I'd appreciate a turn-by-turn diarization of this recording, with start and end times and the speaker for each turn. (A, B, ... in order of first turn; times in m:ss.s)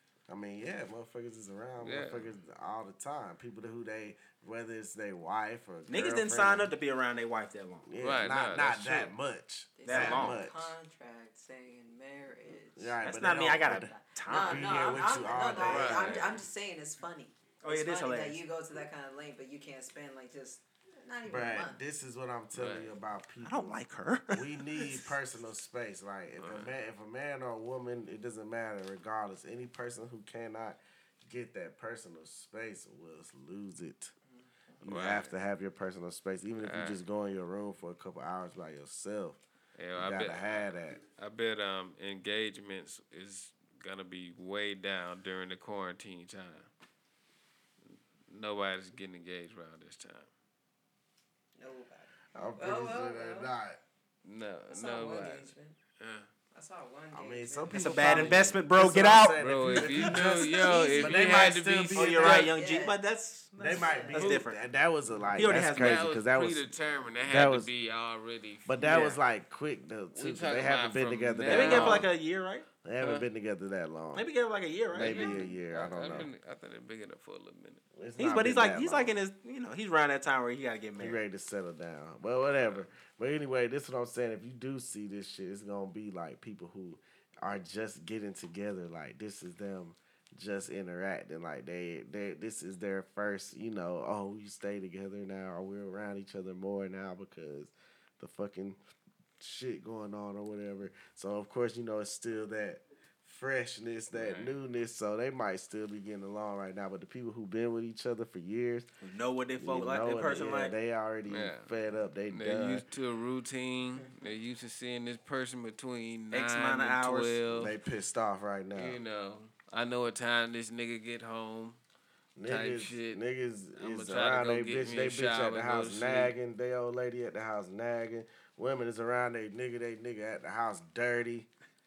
0:00.3-0:06.7 A
0:01.8-0:02.3 B
0:05.9-0:07.9 C
0:07.8-0:10.8 A
0:08.0-0:09.1 B
0:09.8-0:13.0 D
0:09.9-0:10.4 C
0:12.8-0:16.4 A
0:13.0-0:16.2 C
0:14.3-0:21.8 D
0:15.6-0:16.2 B
0:17.6-0:18.4 C
0:21.3-0:34.1 A
0:22.5-0:22.9 B
0:23.4-0:25.1 C
0:26.4-0:26.7 B
0:34.3-0:34.8 D
0:34.8-0:39.4 A
0:34.9-0:35.3 B
0:36.6-0:37.0 B
0:39.8-0:46.7 B
0:40.0-0:41.0 A
0:47.9-0:50.3 B
0:51.6-0:53.5 D
0:52.3-0:53.8 A
0:54.2-0:56.3 B
0:54.7-0:55.8 D
0:56.5-0:58.4 D
0:57.1-1:02.5 A
0:57.8-0:59.4 C
0:59.4-1:02.4 B
1:00.2-1:01.5 D
1:01.9-1:04.6 C
1:02.2-1:03.0 D
1:03.6-1:06.7 A
1:03.6-1:04.3 D
1:05.4-1:06.1 C
1:05.4-1:09.2 B
1:07.2-1:07.7 A
1:08.7-1:12.1 A
1:08.8-1:09.2 C
1:10.1-1:12.1 B
1:11.5-1:12.7 C
1:12.8-1:14.3 A
1:13.0-1:13.3 B
1:14.2-1:15.4 C
1:14.9-1:16.3 A
1:14.9-1:17.8 B
1:17.9-1:19.2 A
1:18.2-1:21.2 C
1:21.0-1:38.8 A
1:22.6-1:22.9 B
1:39.4-1:48.9 A
1:44.1-1:44.5 B
1:49.0-1:50.7 C
1:49.6-1:52.8 A
1:51.3-1:51.7 B
1:52.3-1:57.8 B
1:56.3-1:57.4 C
1:57.5-1:59.0 A
1:58.8-2:01.8 B
2:02.4-2:11.5 A
2:02.5-2:03.2 B
2:03.8-2:06.3 B